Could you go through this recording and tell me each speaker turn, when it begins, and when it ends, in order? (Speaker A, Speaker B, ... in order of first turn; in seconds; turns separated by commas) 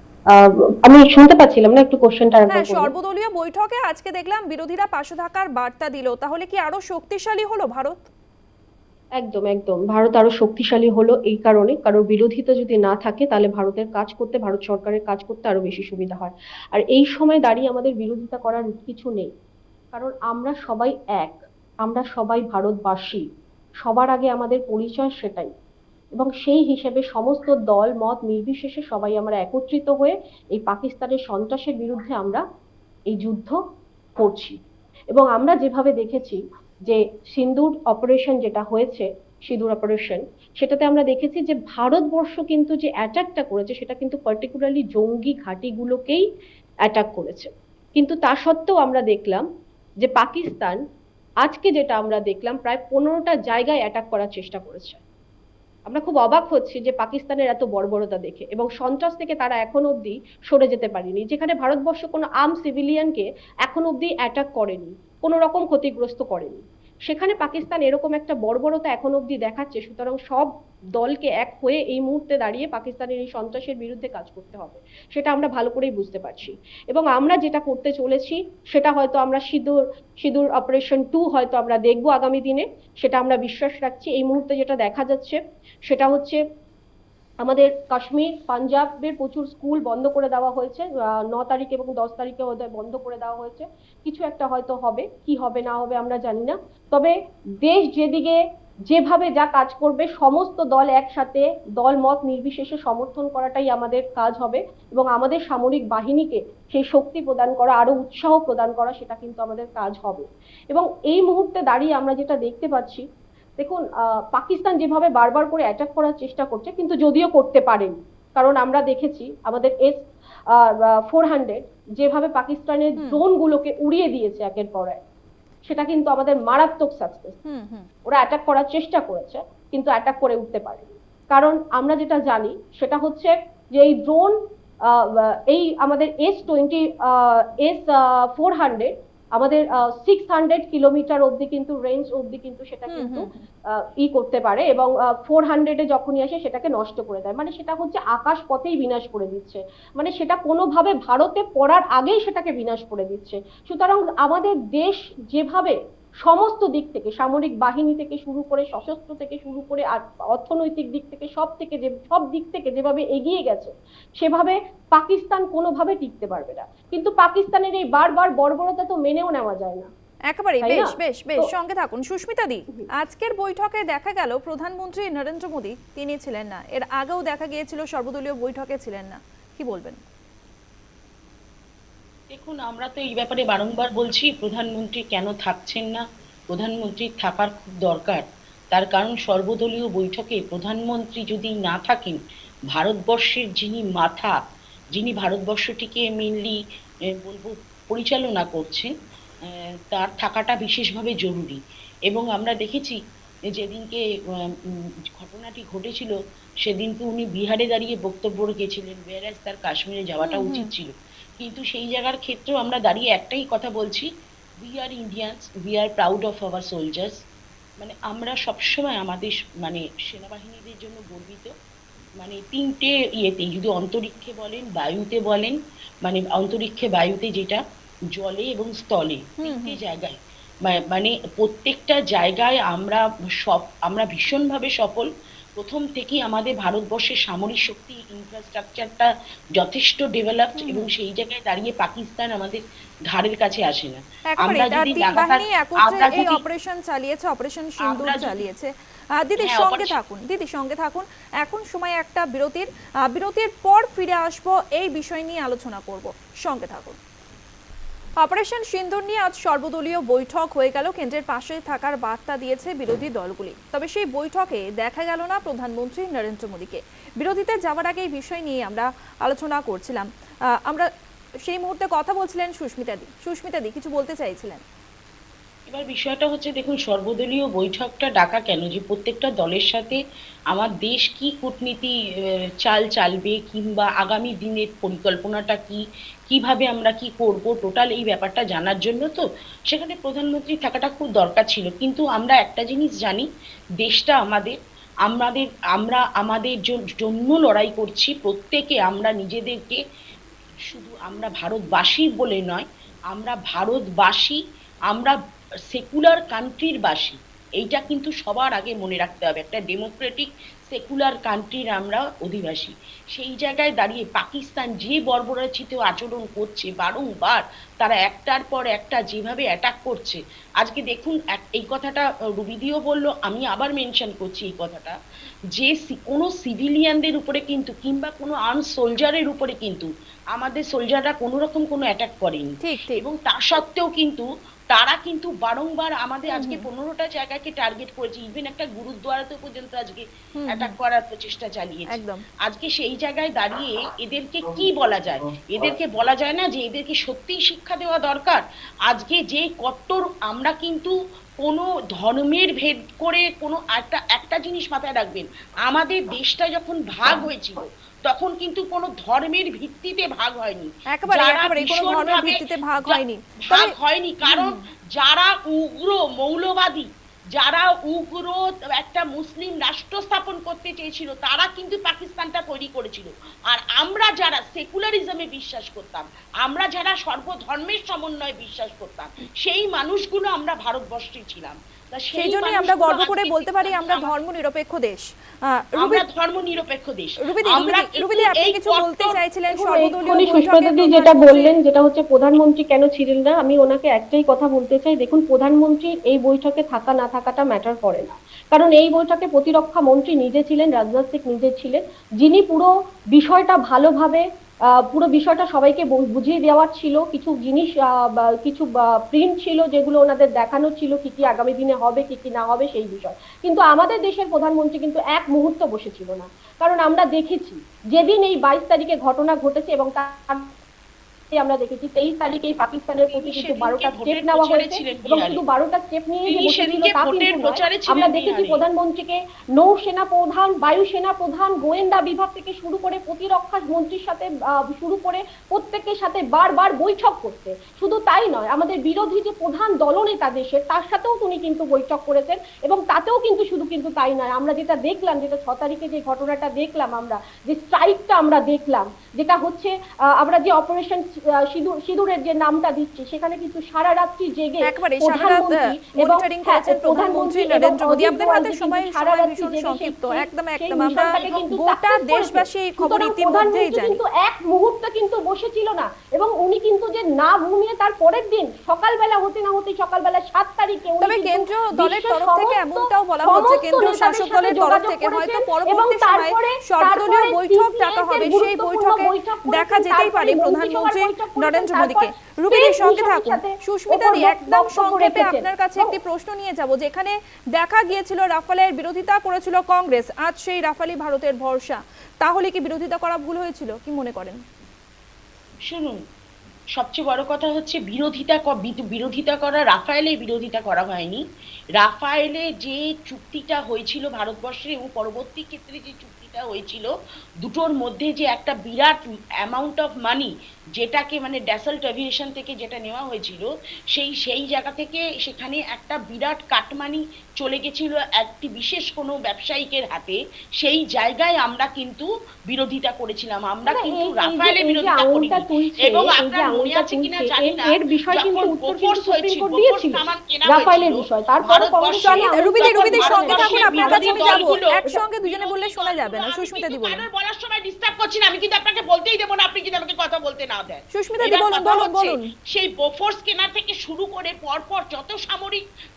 Speaker A: 0.3-2.9, Speaker B: 2.5-8.1, Speaker A: 9.2-19.3, Speaker A: 19.9-23.2, Speaker A: 23.8-25.5, Speaker A: 26.1-32.4, Speaker A: 33.1-33.6, Speaker A: 34.2-34.6, Speaker A: 35.1-46.2, Speaker A: 46.8-49.4, Speaker A: 50.0-50.8, Speaker A: 51.4-55.0, Speaker A: 55.9-86.4, Speaker A: 87.4-113.0, Speaker A: 113.6-120.0, Speaker A: 120.5-125.0, Speaker A: 125.6-127.4, Speaker B: 127.5-127.9, Speaker A: 128.1-134.3, Speaker A: 134.9-169.9, Speaker B: 142.9-143.4, Speaker B: 170.3-180.0, Speaker A: 170.6-171.5, Speaker C: 182.3-192.2, Speaker C: 192.7-194.3, Speaker C: 194.9-196.6, Speaker C: 197.2-198.9, Speaker C: 199.5-203.0, Speaker C: 203.5-204.0, Speaker C: 205.1-214.1, Speaker B: 210.2-210.7, Speaker C: 214.6-217.2, Speaker C: 217.8-221.5, Speaker C: 222.2-227.6, Speaker C: 228.1-246.4, Speaker B: 229.4-229.8, Speaker B: 240.6-240.9, Speaker B: 244.3-257.0, Speaker C: 247.8-248.5, Speaker C: 249.4-250.0, Speaker B: 258.2-270.1, Speaker B: 271.4-274.6, Speaker C: 275.7-280.0, Speaker C: 280.5-281.9, Speaker C: 282.6-293.2, Speaker C: 293.8-299.8, Speaker C: 300.7-305.1, Speaker C: 305.7-324.9, Speaker C: 325.5-384.2, Speaker B: 332.6-333.0, Speaker B: 336.3-336.6, Speaker B: 340.4-340.8, Speaker B: 341.9-342.2, Speaker B: 360.9-363.7, Speaker B: 364.2-364.6, Speaker B: 382.1-386.0, Speaker C: 385.8-389.2, Speaker B: 387.2-391.5, Speaker A: 389.5-404.2, Speaker A: 404.9-420.5, Speaker A: 421.3-485.9, Speaker C: 423.1-425.4, Speaker C: 426.2-428.6, Speaker B: 454.6-464.0, Speaker C: 460.9-461.4, Speaker B: 471.0-494.4, Speaker C: 495.7-496.0, Speaker C: 496.7-501.2, Speaker C: 501.8-506.9, Speaker C: 507.4-545.6, Speaker A: 523.7-534.5, Speaker B: 532.0-537.0, Speaker B: 540.9-542.3